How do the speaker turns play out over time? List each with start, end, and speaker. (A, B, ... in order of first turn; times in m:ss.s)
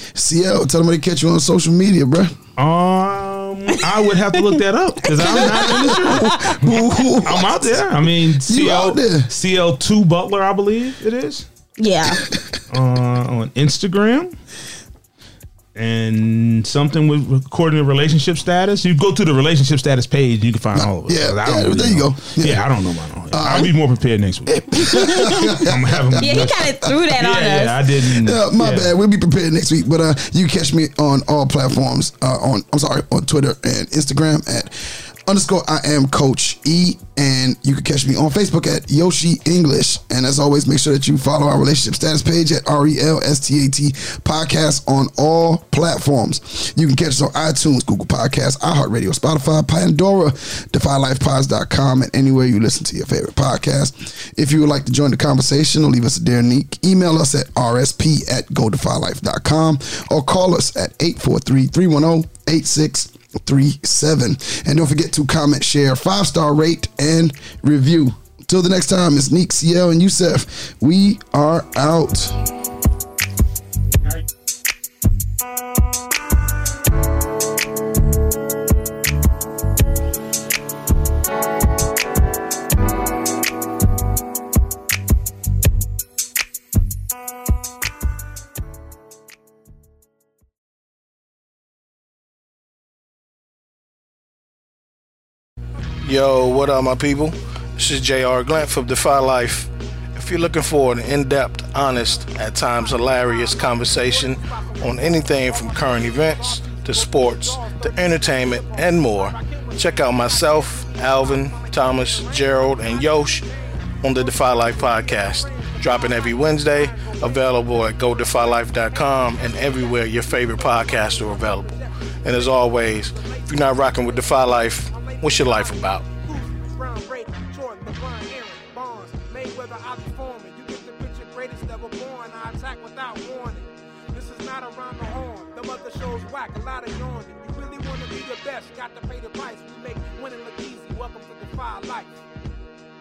0:00.2-0:02.4 A
0:02.6-0:11.4 B
0:05.0-0:06.6 C
0:06.4-0:07.9 A
0:08.4-0:09.3 A
0:11.8-0:12.2 C
0:12.7-0:14.4 B
0:15.8-0:28.9 B
0:20.7-0:22.7 A
0:23.3-0:23.7 A
0:24.5-0:26.9 A
0:24.7-0:25.6 C
0:26.2-0:27.8 C
0:28.0-1:12.4 A
1:36.0-1:53.4 D
1:41.9-2:22.2 E
1:54.0-2:06.1 D